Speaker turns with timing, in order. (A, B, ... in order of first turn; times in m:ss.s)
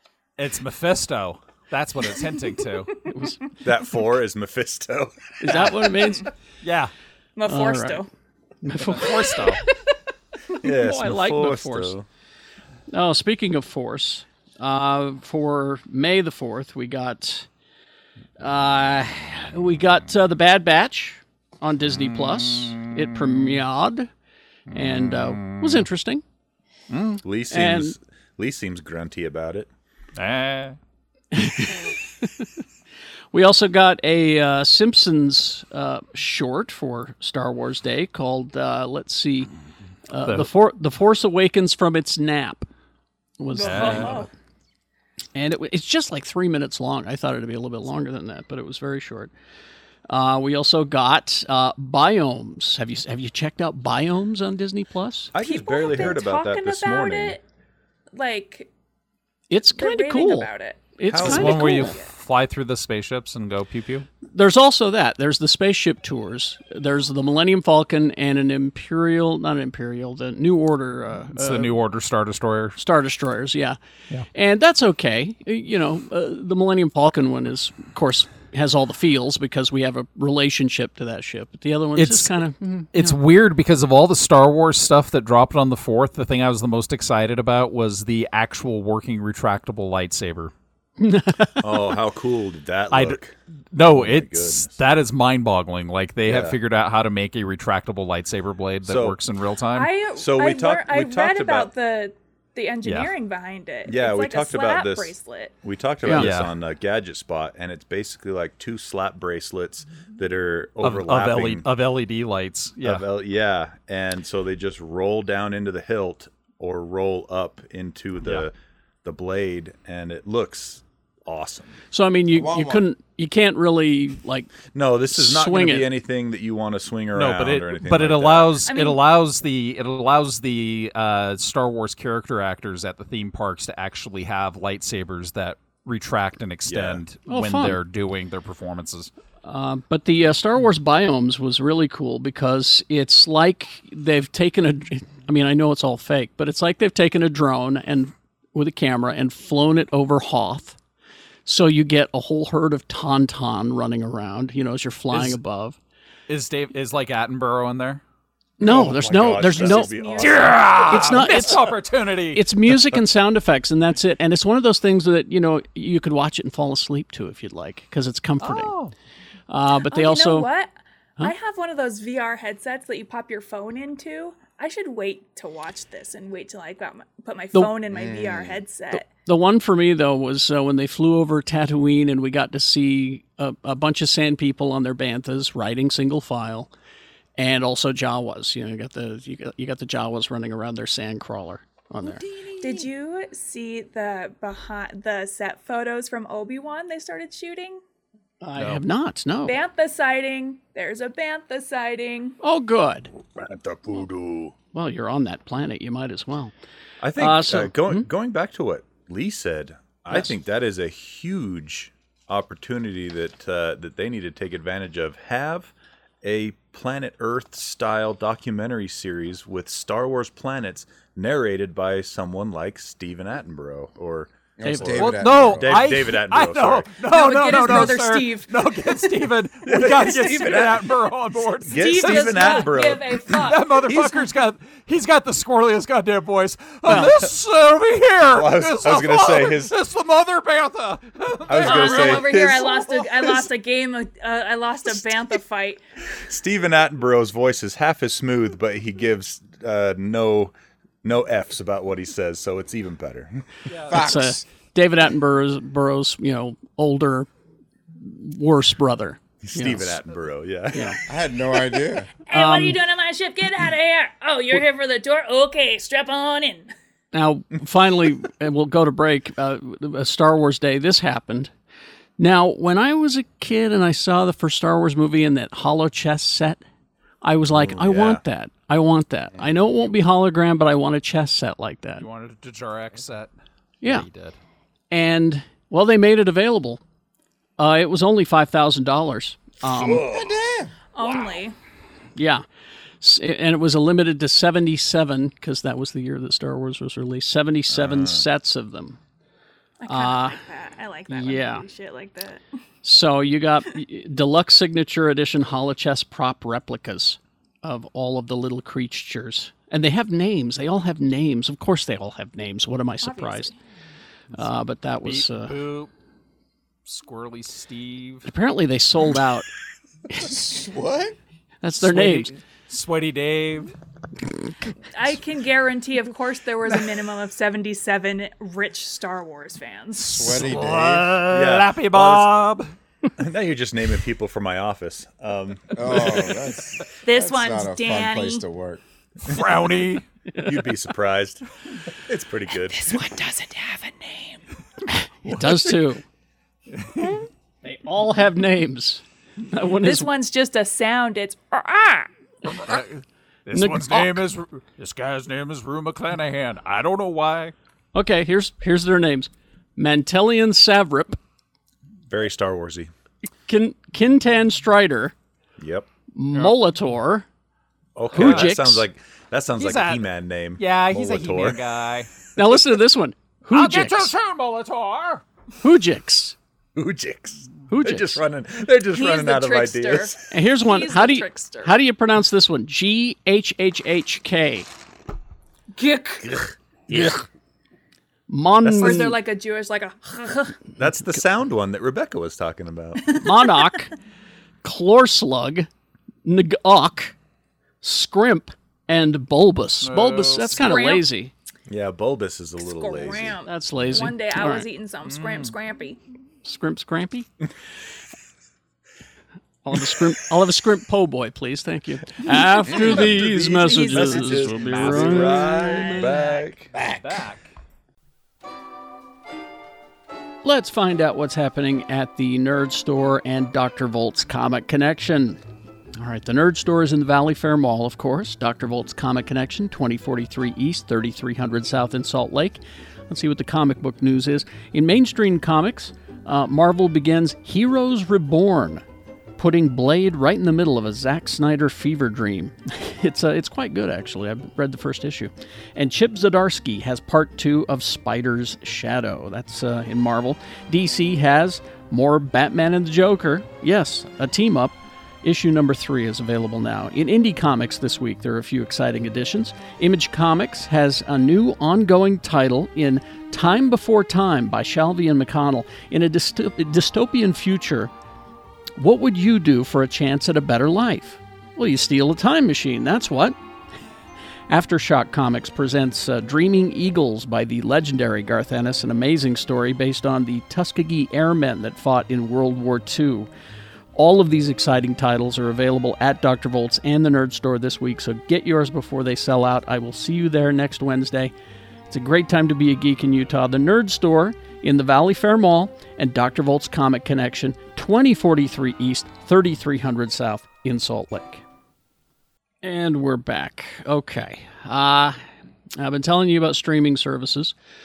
0:00.4-0:02.9 A
0:03.1-0:03.4 B
0:03.6-0:05.7 C
0:05.4-0:06.3 B
0:06.0-0:06.3 D
0:06.6-0:06.9 A
0:07.4-0:08.1 D
0:07.5-0:08.0 B
0:08.6-0:09.5 B
0:08.8-0:09.6 A
0:10.6-0:12.0 C
0:10.6-0:11.9 B
0:12.9-0:17.5 B
0:18.4-0:24.1 B
0:24.7-0:26.2 B
0:25.4-0:25.8 A
0:26.9-0:27.2 A
0:27.2-0:29.7 C
0:27.5-0:28.0 B
0:30.2-0:30.8 A
0:31.3-0:32.5 B
0:33.3-0:39.5 B
0:40.1-0:42.6 B
0:40.2-0:40.5 A
0:43.4-0:44.2 B
0:43.5-0:44.3 D
0:43.6-0:44.3 A
0:45.3-0:49.3 B
0:50.1-0:55.3 B
0:55.3-0:57.4 C
0:55.4-0:57.4 D
0:58.1-0:58.7 D
0:59.5-1:02.0 B
0:59.7-1:02.1 D
1:01.1-1:01.8 C
1:01.1-1:04.1 A
1:04.3-1:11.7 B
1:11.3-1:12.8 A
1:12.8-1:13.8 B
1:14.3-1:23.2 B
1:22.0-1:22.4 A
1:22.9-1:30.5 A
1:31.0-1:31.8 B
1:31.6-1:34.7 C
1:32.9-1:33.2 A
1:33.7-1:39.9 A
1:36.2-1:36.6 C
1:38.8-1:39.2 C
1:39.7-1:45.5 D
1:40.1-1:41.7 C
1:42.8-1:43.1 A
1:43.8-1:51.6 C
1:46.0-1:46.3 B
1:46.1-1:46.5 A
1:50.8-1:53.0 A
1:52.8-2:01.8 C
2:01.9-2:04.5 B
2:02.3-2:02.8 E
2:04.7-2:08.6 C
2:05.1-2:05.9 B
2:07.1-2:19.1 A
2:08.6-2:09.0 D
2:16.7-2:17.0 C
2:17.3-2:17.8 B
2:19.4-2:30.8 B
2:31.4-2:35.8 B
2:35.1-2:35.4 A
2:36.3-2:38.0 A
2:38.6-2:40.1 B
2:38.6-2:41.2 C
2:39.4-2:40.8 D
2:40.2-2:42.4 A
2:40.8-2:41.7 B
2:42.3-2:48.7 B
2:48.4-2:48.9 A
2:49.5-2:50.5 B
2:49.9-2:59.1 D
2:57.9-2:58.6 E
2:58.9-3:06.7 B
3:07.4-3:12.2 B
3:12.0-3:12.8 A
3:12.6-3:17.8 D
3:18.4-3:19.6 B
3:19.4-3:22.4 D
3:22.4-3:23.1 B
3:23.3-3:24.5 C
3:24.7-3:26.5 B
3:27.0-3:35.7 C
3:27.2-3:28.1 B
3:36.2-3:46.9 C
3:44.6-3:45.9 E
3:44.6-3:45.0 B
3:45.0-3:52.8 A
3:47.0-3:49.2 D
3:49.7-3:50.7 C
3:49.8-3:50.7 D
3:51.7-3:53.4 C
3:51.7-3:54.2 D
3:53.3-4:02.3 A
3:56.9-3:57.1 B
3:56.9-3:57.1 C
3:58.3-3:59.7 C
4:01.5-4:03.5 C
4:01.6-4:05.8 D
4:06.1-4:13.4 C
4:13.7-4:14.0 A
4:13.9-4:14.4 E
4:13.9-4:17.3 B
4:18.0-4:20.0 B
4:19.4-4:20.9 C
4:21.1-4:22.1 E
4:21.7-4:26.7 D
4:22.3-4:22.8 B
4:27.1-4:31.5 B
4:32.2-4:36.6 B
4:37.2-4:42.0 B
4:37.5-4:38.2 C
4:42.0-4:43.3 A
4:43.8-4:44.1 B
4:43.8-4:44.4 A
4:44.9-4:46.8 B
4:47.6-4:50.0 B
4:49.7-4:50.7 E
4:49.7-4:50.4 C
4:50.9-4:51.5 D
4:52.2-4:52.4 B
4:53.0-4:59.0 B
4:57.7-4:58.2 C
4:59.8-5:02.4 D
4:59.9-5:00.4 B
5:01.1-5:01.6 B
5:02.8-5:13.5 B
5:13.0-5:13.6 D
5:14.3-5:15.5 B
5:15.0-5:15.9 A
5:16.8-5:18.2 A
5:18.2-5:19.5 B
5:20.1-5:21.2 E
5:21.6-5:22.3 B
5:21.8-5:23.7 A
5:24.9-5:30.2 D
5:29.9-5:32.7 A
5:30.1-5:31.1 E
5:30.4-5:30.6 C
5:31.3-5:32.3 C
5:33.2-5:36.3 C
5:35.7-5:38.8 E
5:37.0-5:38.4 D
5:39.2-5:40.0 A
5:40.4-5:42.9 C
5:42.7-5:44.4 D
5:44.9-5:46.0 B
5:46.7-5:47.2 A
5:47.6-5:50.1 B
5:49.8-5:52.1 D
5:52.4-5:57.5 A
5:53.5-5:54.2 B
5:57.9-6:01.2 B
6:02.1-6:02.9 C
6:03.4-6:05.1 B
6:05.6-6:05.9 C
6:06.1-6:07.2 B
6:08.0-6:11.6 C
6:08.1-6:08.5 A
6:08.1-6:08.8 B
6:09.6-6:12.1 A
6:12.4-6:14.1 B
6:13.5-6:15.2 A
6:15.6-6:16.4 B
6:16.7-6:20.1 C
6:17.7-6:18.2 B
6:18.9-6:21.7 D
6:20.3-6:24.7 B
6:25.7-6:26.4 D
6:26.9-6:27.2 C
6:28.3-6:29.2 B
6:28.6-6:29.1 C
6:28.8-6:30.7 D
6:30.7-6:33.1 C
6:33.2-6:33.9 B
6:34.6-6:35.7 B
6:36.2-6:37.1 B
6:37.8-6:41.3 B
6:39.8-6:40.7 A
6:40.5-6:41.0 D
6:41.7-6:43.4 C
6:42.6-6:46.0 D
6:43.4-6:44.7 B
6:45.0-6:45.5 A
6:46.4-6:47.3 B
6:49.6-6:56.1 B
6:52.7-6:56.8 C
6:53.6-6:54.1 D
6:53.7-6:55.4 A
6:55.3-6:56.5 D
6:56.7-6:57.5 A
7:00.4-7:05.4 B
7:06.0-7:18.8 B
7:19.4-7:47.9 B
7:48.8-7:53.4 B
7:54.5-8:03.3 B
8:03.9-8:11.3 B
8:11.9-8:21.4 B
8:22.6-8:25.2 B
8:25.8-8:27.5 B